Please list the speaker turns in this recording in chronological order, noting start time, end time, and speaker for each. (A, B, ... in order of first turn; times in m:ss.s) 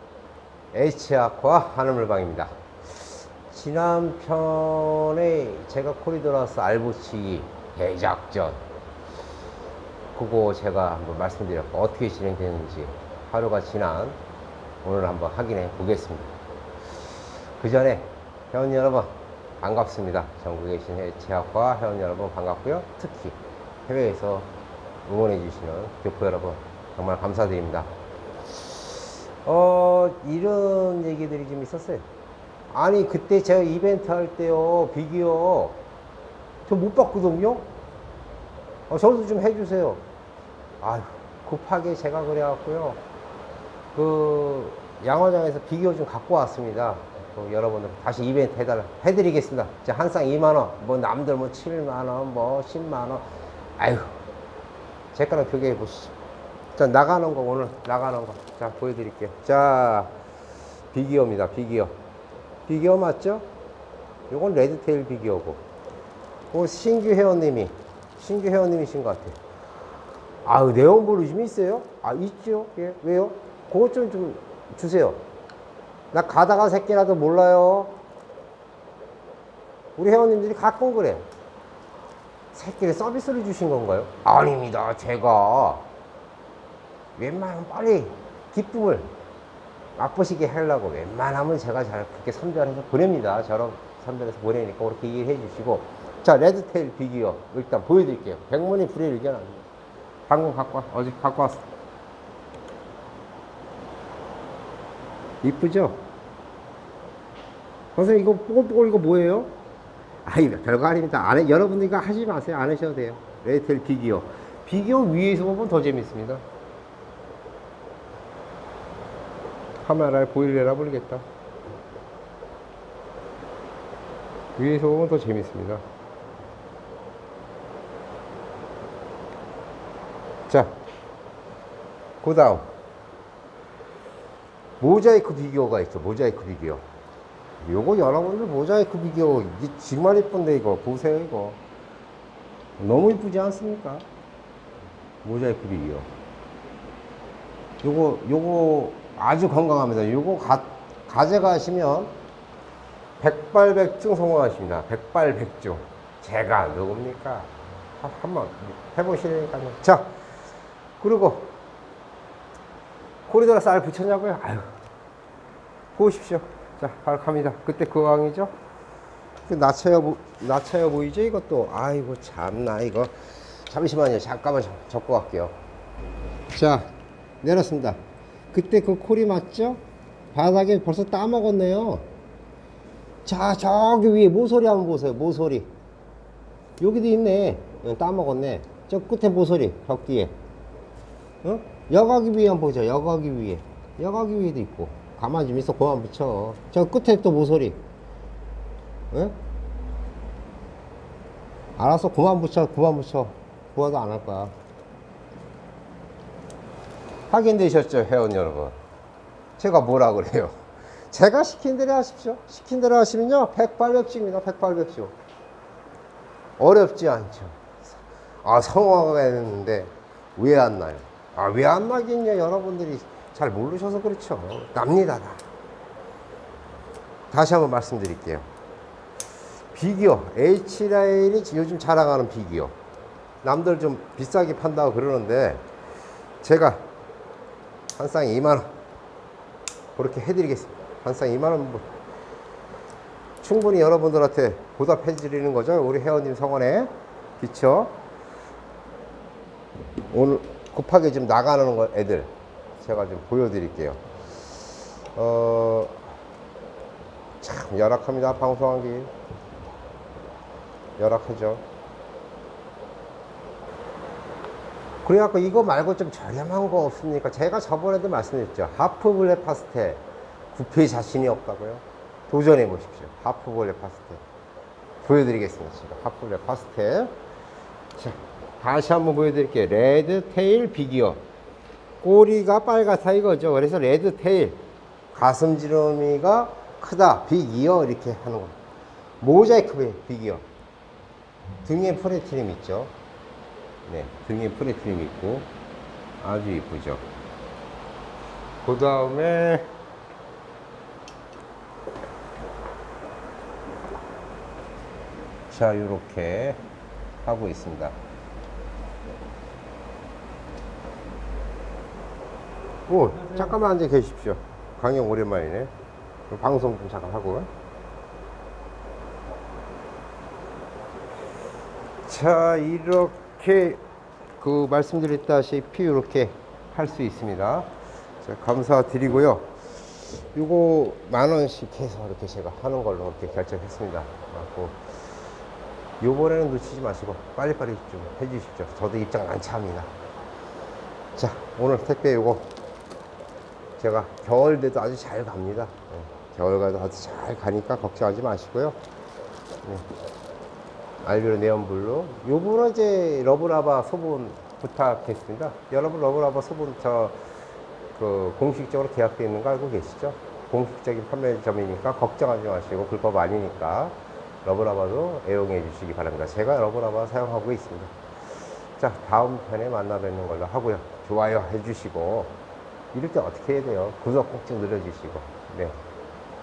0:00.7-0:02.5 A
0:03.5-0:08.6 A
0:10.2-0:14.2 A
0:14.8-0:16.3 A
0:17.6-0:24.5 A
0:25.0-0:27.9 A
0:29.4-0:32.1 A
0:32.7-0:35.8 A
0:36.7-0:37.7 A
0:38.9-0:40.0 A
0:40.8-0:43.0 A
0:44.0-0:54.2 A
0:55.1-0:56.1 A
0:56.8-1:00.1 A
1:00.9-1:01.9 A
1:02.7-1:03.5 A
1:04.3-1:05.6 A
1:06.5-1:09.4 A
1:10.4-1:15.2 A
1:16.1-1:18.0 A
1:20.0-1:21.3 A
1:22.5-1:25.8 A
1:27.2-1:29.1 A
1:30.0-1:39.6 A
1:40.3-1:41.7 A
1:45.4-1:46.0 A
1:48.0-1:49.5 A
1:50.2-1:56.4 A
1:59.8-2:01.2 A
2:04.6-2:05.8 A
2:10.5-2:10.7 A
2:12.2-2:12.7 A
2:14.8-2:16.8 A
2:17.6-2:21.6 A
2:22.8-2:24.0 A
2:25.2-2:26.1 A
2:27.8-2:32.1 A
2:33.2-2:40.1 A
2:41.0-2:41.5 A
2:43.3-2:44.7 A
2:46.0-2:48.5 A
2:49.5-2:53.1 A
2:53.6-2:55.6 A
2:56.5-2:56.9 A
2:57.4-2:58.0 A
2:58.5-2:59.8 A
3:00.3-3:02.0 A
3:03.3-3:05.7 A
3:06.8-3:10.3 A
3:11.4-3:17.8 A
3:19.1-3:19.4 A
3:21.8-3:24.5 A
3:27.3-3:28.8 A
3:29.6-3:30.6 A
3:31.1-3:35.1 A
3:36.6-3:45.4 A
3:47.3-3:48.5 A
3:49.7-3:52.8 A
3:53.4-3:55.6 A
3:56.4-3:56.8 A
3:58.0-3:58.7 A
4:00.0-4:01.9 A
4:03.4-4:08.0 A
4:10.1-4:14.0 A
4:15.2-4:16.0 A
4:17.4-4:19.1 A
4:21.0-4:21.6 A
4:25.0-4:34.2 A
4:35.0-4:37.1 A
4:38.0-4:41.2 A
4:42.0-4:48.6 A
4:49.2-4:50.4 A
4:51.6-4:52.9 A
4:53.9-4:55.5 A
4:56.2-4:57.1 A
4:58.6-4:59.7 A
5:05.5-5:06.6 A
5:07.2-5:08.0 A
5:12.9-5:15.7 A
5:16.3-5:17.5 A
5:22.0-5:23.8 A
5:24.4-5:27.7 A
5:28.2-5:29.5 A
5:30.3-5:34.8 A
5:36.0-5:39.9 A
5:41.2-5:42.5 A
5:43.8-5:48.8 A
5:51.0-5:57.2 A
5:58.0-6:07.9 A
6:08.8-6:12.3 A
6:12.9-6:15.8 A